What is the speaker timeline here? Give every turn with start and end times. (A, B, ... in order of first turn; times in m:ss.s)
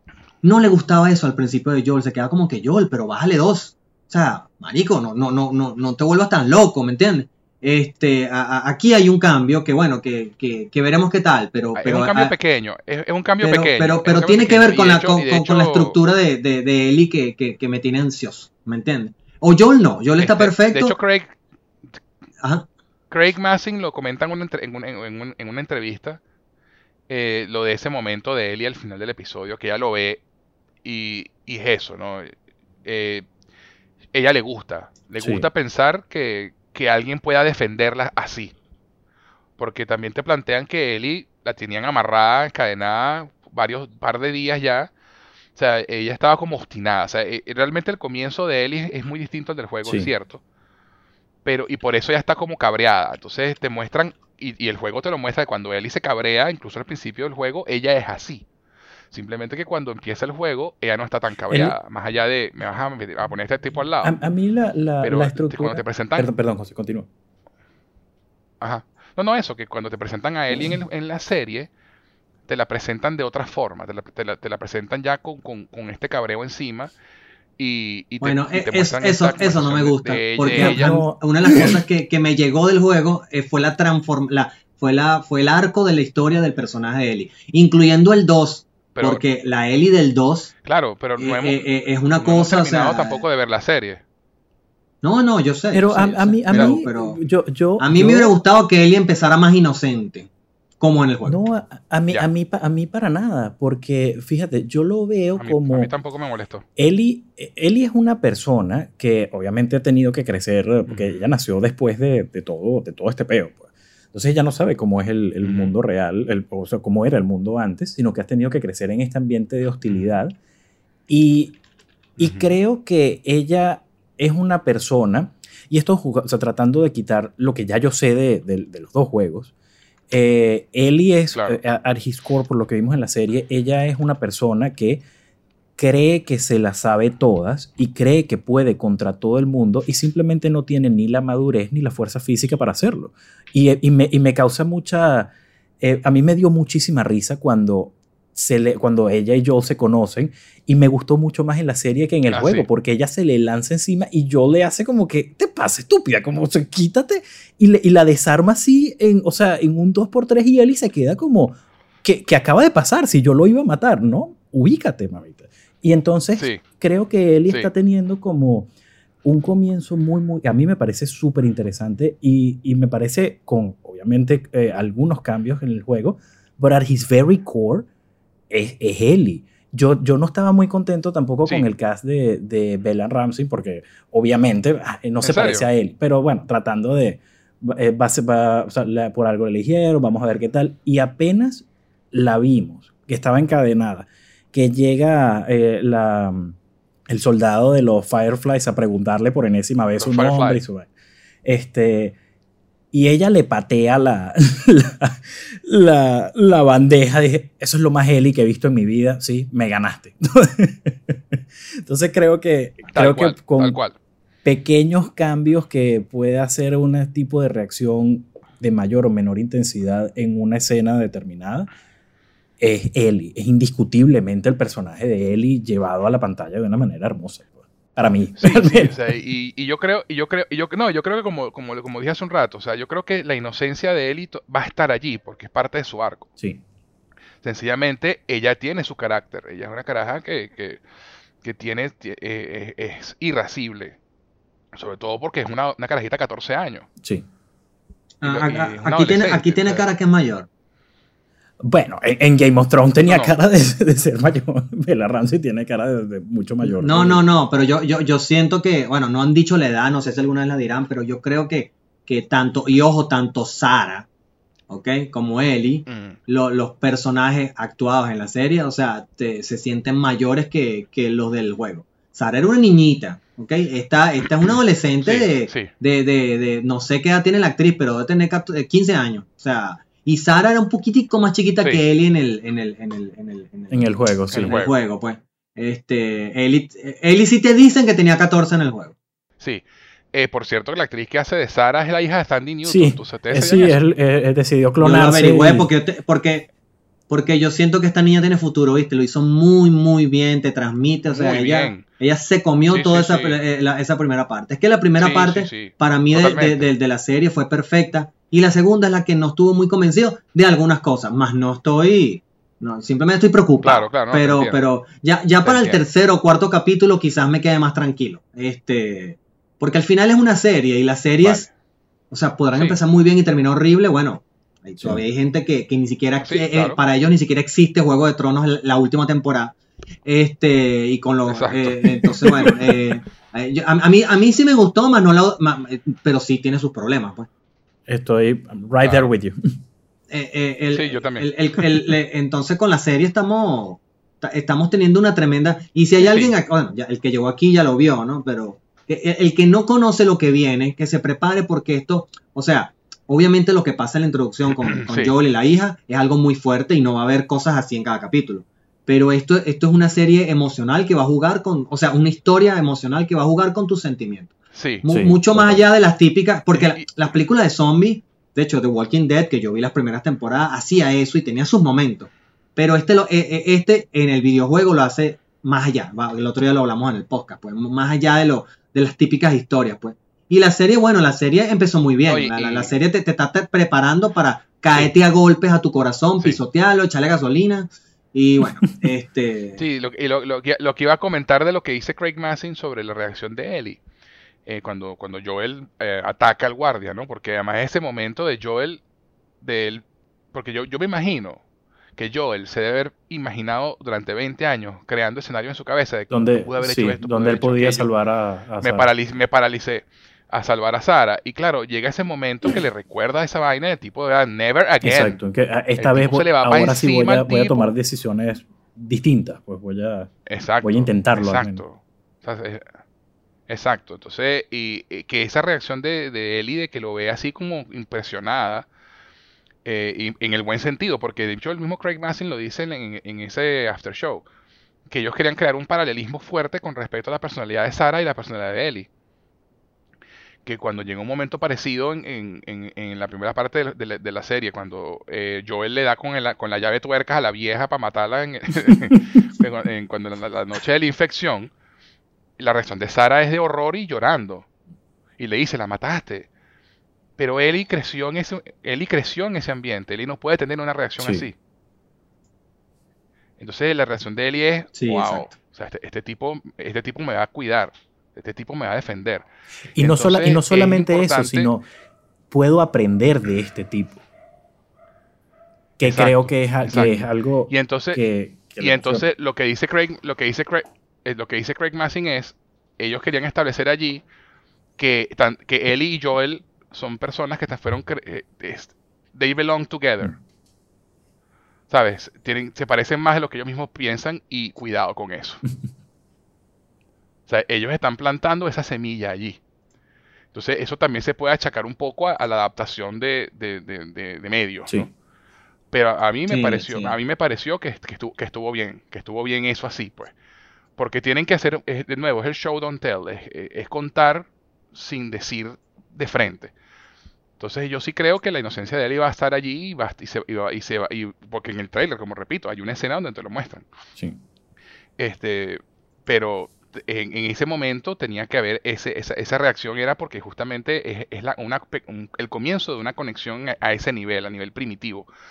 0:00.4-0:12.3 A
0:11.8-0:16.0 B
0:13.4-0:21.0 A
0:20.2-0:21.3 B
0:22.4-0:22.6 A
0:23.1-0:26.2 B
0:27.1-0:30.2 B
0:30.8-0:32.3 B
0:32.8-0:33.2 B
0:34.1-0:38.5 B
0:35.2-0:35.5 C
0:39.6-0:44.9 B
0:45.5-0:50.4 B
0:49.8-0:50.1 C
0:51.4-0:58.4 B
0:59.1-1:04.2 B
1:01.5-1:01.8 C
1:04.0-1:07.1 C
1:05.0-1:06.3 B
1:08.6-1:11.7 B
1:12.5-1:16.9 B
1:17.6-1:21.8 B
1:18.2-1:30.5 A
1:20.5-1:21.8 C
1:29.0-1:29.2 B
1:30.6-1:31.6 B
1:31.2-1:33.2 A
1:32.1-1:34.0 B
1:35.0-1:37.2 A
1:35.7-1:38.3 C
1:36.5-1:36.8 B
1:37.8-1:40.3 A
1:40.8-1:41.4 A
1:41.2-1:45.9 C
1:45.4-1:46.6 B
1:46.8-2:00.4 C
1:50.9-1:51.2 B
1:55.4-1:55.7 B
2:01.1-2:01.6 C
2:02.2-2:02.5 B
2:02.2-2:09.5 C
2:10.1-2:15.0 C
2:11.3-2:11.6 B
2:15.8-2:48.7 C
2:32.3-2:32.7 B
2:49.2-2:57.9 C
2:58.5-3:16.6 C
3:05.2-3:05.7 B
3:17.1-3:20.9 C
3:20.0-3:20.6 B
3:21.4-3:22.2 C
3:22.9-3:33.8 C
3:32.9-3:34.0 B
3:34.4-3:41.7 C
3:42.6-3:48.9 C
3:48.4-3:56.3 B
3:57.4-4:00.8 B
4:01.4-4:04.0 B
4:04.7-4:06.9 B
4:08.2-4:10.5 A
4:08.2-4:09.9 B
4:11.6-4:17.2 C
4:13.1-4:13.4 B
4:16.6-4:24.1 A
4:24.7-4:48.9 A
4:25.9-4:26.2 B
4:34.4-4:35.7 B
4:43.7-4:44.6 C
4:44.3-4:44.7 B
4:49.4-4:53.8 B
4:52.6-4:55.7 C
4:54.8-4:56.5 A
4:57.1-5:21.5 A
5:01.0-5:01.8 B
5:02.7-5:03.4 B
5:05.0-5:06.7 B
5:13.6-5:14.6 B
5:15.4-5:15.8 B
5:21.2-5:21.5 B
5:22.1-5:37.3 A
5:22.5-5:22.8 B
5:24.8-5:25.0 C
5:26.2-5:26.8 B
5:31.3-5:32.0 B
5:37.9-5:39.4 C
5:38.8-5:39.0 B
5:40.1-6:29.6 A
5:40.7-5:41.3 B
5:46.0-5:46.3 B
5:54.6-5:55.1 B
6:04.5-6:04.8 B
6:04.9-6:05.6 C
6:06.5-6:06.9 B
6:22.0-6:22.7 B
6:29.6-6:33.8 B
6:34.4-6:38.8 B
6:39.4-6:41.4 B
6:42.0-6:47.9 B
6:46.1-6:48.9 C
6:48.6-6:55.2 B
6:54.8-7:00.1 C
6:55.8-6:57.7 B
7:00.3-7:02.7 B
7:00.6-7:01.6 C
7:03.5-7:08.7 B
7:09.6-7:14.2 B
7:14.9-7:18.9 B
7:20.4-7:31.5 B
7:32.4-7:34.4 B
7:35.2-7:36.3 B
7:37.2-7:41.3 B
7:41.0-7:41.3 C
7:43.4-7:49.2 B
7:44.7-7:45.3 A
7:49.7-7:51.6 C
7:49.8-7:51.5 B
7:52.3-7:54.0 C
7:55.8-7:59.0 C
7:55.8-7:58.0 B
7:58.6-8:04.0 B
8:04.8-8:10.1 B
8:11.7-8:15.4 B
8:17.3-8:19.4 B
8:20.3-8:24.9 B
8:25.7-8:30.1 B
8:26.3-8:27.0 A
8:30.8-8:36.5 B
8:37.4-8:43.6 B
8:45.0-8:55.1 B